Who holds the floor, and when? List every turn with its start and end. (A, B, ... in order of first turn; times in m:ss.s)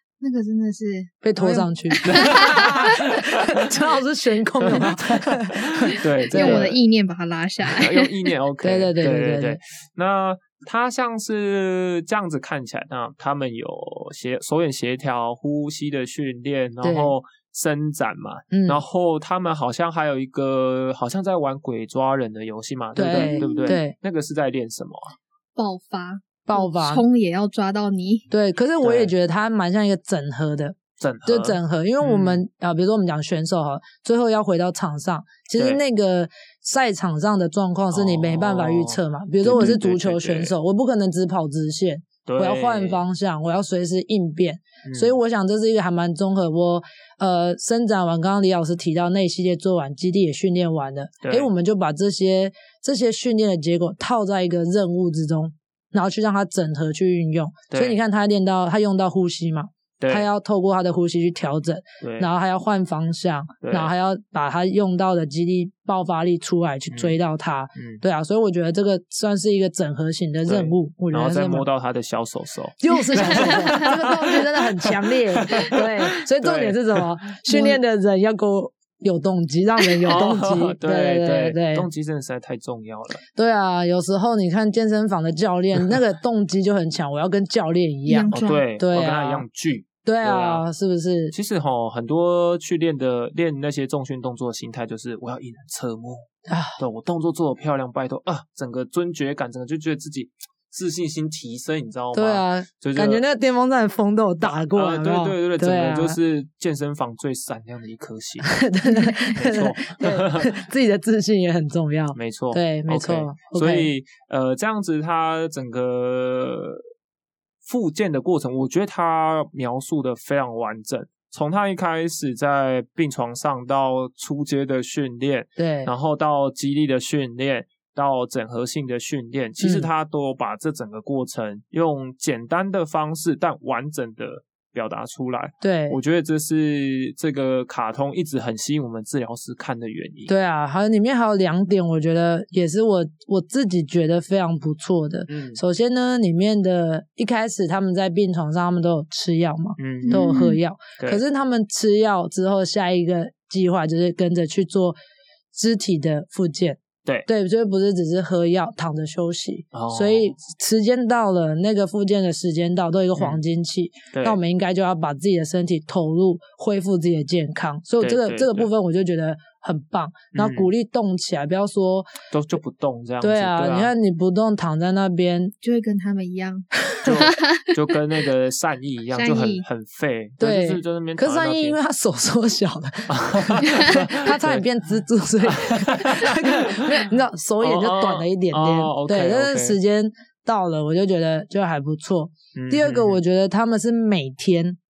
0:00.2-0:02.9 A
0:01.2-0:06.7 B
0:02.0-0:03.7 C
0:04.6-0:06.8 C
0:06.3-0:08.3 A
0:07.6-0:25.1 C
0:08.6-0:09.6 B
0:16.8-0:17.1 B
0:18.5-0:18.8 B
0:23.0-0:23.9 B
0:23.1-0:23.8 A
0:25.6-0:28.3 A
0:26.4-0:27.0 B
0:28.3-1:11.7 B
0:28.8-0:29.1 C
0:31.0-0:32.4 C
0:35.5-0:35.8 C
0:37.9-0:40.5 C
0:42.2-0:43.0 C
0:44.8-0:45.2 C
0:51.2-0:51.5 C
0:57.7-0:58.0 C
1:00.0-1:00.2 C
1:02.0-1:02.3 C
1:03.6-1:03.9 C
1:06.9-1:07.2 C
1:07.7-1:08.0 C
1:10.4-1:17.1 C
1:12.8-1:21.9 B
1:17.5-1:17.8 A
1:20.0-1:23.2 C
1:23.4-1:29.4 B
1:28.1-1:28.6 A
1:28.3-1:30.6 C
1:30.0-1:31.3 B
1:31.3-1:36.3 C
1:36.5-1:36.8 B
1:36.8-1:43.2 C
1:42.1-1:46.2 B
1:44.4-1:48.6 C
1:48.4-1:53.9 B
1:48.9-1:49.1 A
1:49.3-1:50.6 C
1:52.1-1:56.8 C
1:57.6-2:20.3 C
2:05.6-2:05.9 B
2:09.6-2:09.9 B
2:15.6-2:16.0 B
2:20.3-2:35.0 B
2:25.3-2:25.6 C
2:29.8-2:30.3 C
2:30.0-2:30.6 A
2:35.5-2:52.1 B
2:39.7-2:40.3 C
2:43.2-2:43.4 C
2:44.1-2:44.4 C
2:48.0-2:48.7 C
2:50.3-2:50.7 C
2:52.3-2:53.9 C
2:53.2-2:55.5 B
2:55.6-2:57.8 A
2:57.0-3:01.8 C
2:59.1-2:59.6 A
3:00.4-3:14.8 B
3:03.1-3:04.6 C
3:05.4-3:09.8 C
3:12.5-3:13.2 C